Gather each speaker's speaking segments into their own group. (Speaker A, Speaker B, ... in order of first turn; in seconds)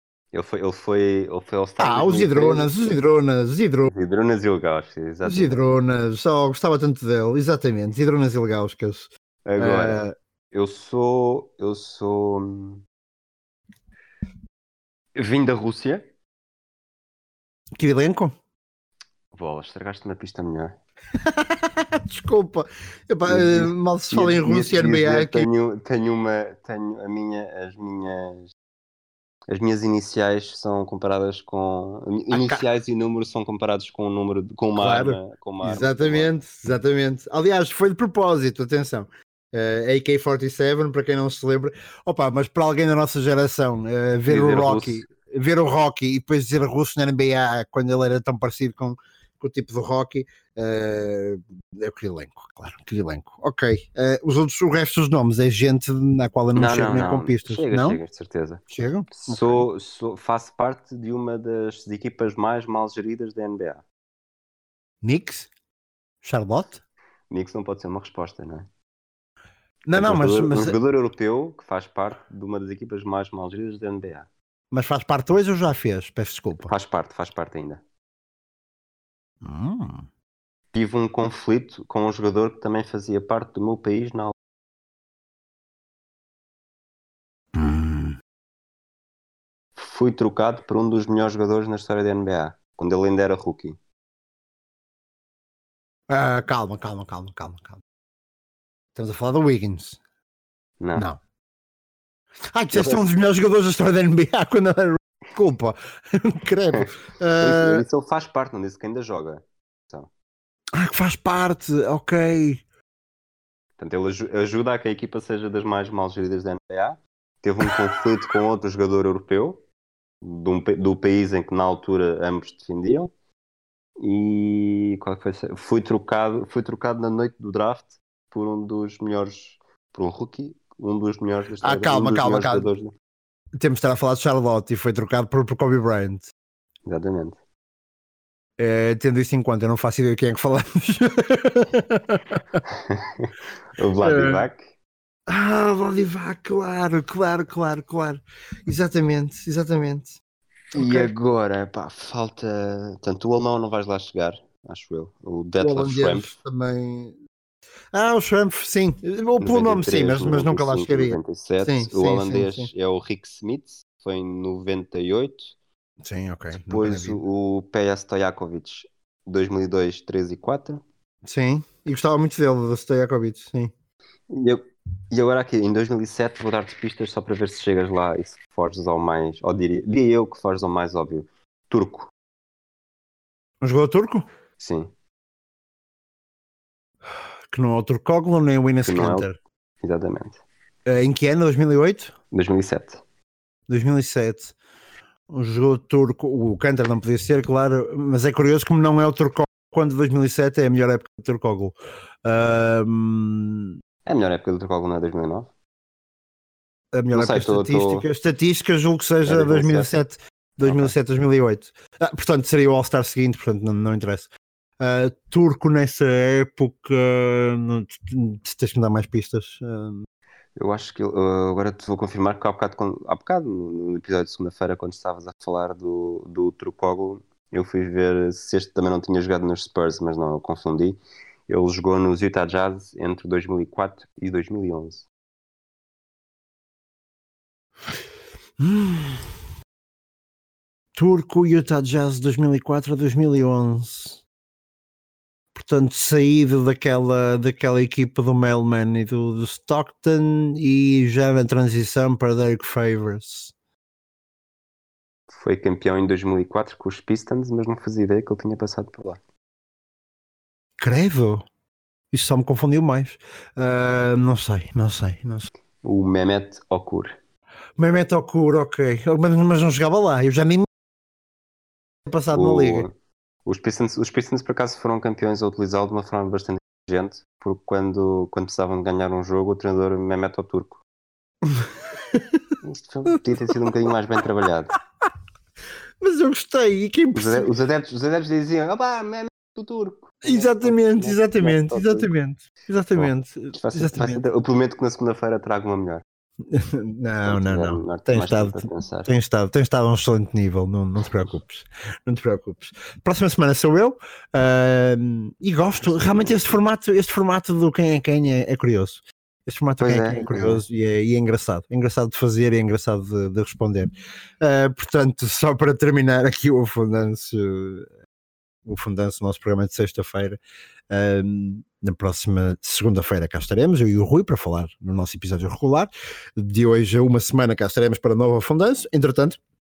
Speaker A: 0.3-2.8, 3.9-5.6, 9.5-12.8, 15.2-16.1, 19.3-20.8, 23.3-28.5, 29.5-36.3, 44.3-45.0, 56.5-63.8, 67.3-68.7, 70.0-74.3, 76.7-77.8, 80.7-84.3, 89.8-93.8, 100.8-101.1, 102.7-103.1, 106.7-110.1, 113.8-119.6, 120.2-123.1, 124.0-132.9, 136.9-137.4, 142.9-144.7, 150.7-156.3, 159.4-165.6, 166.5-170.8, 174.3-182.1, 184.6-184.9, 188.8-189.3, 189.8-190.4, 192.3-193.0, 204.1-205.5, 207.1-208.1, 209.2-209.9, 210.6-210.9, 220.6-235.1, 255.3-259.2, 265.8-267.1, 272.3-272.9, 273.4-280.8, 282.6-284.7, 287.1-292.1, 292.9-296.0, 297.2-299.1, 305.8-306.4, 309.8-310.6
Speaker B: 1.8-3.9, 5.2-10.1, 17.8-18.3, 21.5-25.5, 32.3-32.6, 34.8-58.0, 58.7-59.7, 65.0-65.5, 66.2-66.8, 69.9-70.8, 74.7-76.7, 79.4-80.1, 87.5-88.2, 96.1-97.8, 99.0-100.0, 102.5-107.9, 110.8-112.6, 131.6-132.7, 133.6-136.3, 138.6-142.4, 144.0-144.5, 145.3-150.2, 150.7-151.1, 155.6-157.2, 157.9-162.7, 166.0-167.2, 171.2-173.7, 183.6-184.2, 187.5-189.4, 190.9-192.1, 193.7-194.6, 195.3-203.8, 206.9-214.3, 214.8-220.1, 238.6-239.3, 241.0-244.2, 245.5-253.5, 260.8-261.4, 262.1-265.5, 267.8-270.7, 272.1-272.9, 281.5-282.4, 286.0-287.5, 290.2-294.3, 296.5-317.9, 318.7-320.4, 320.9-329.4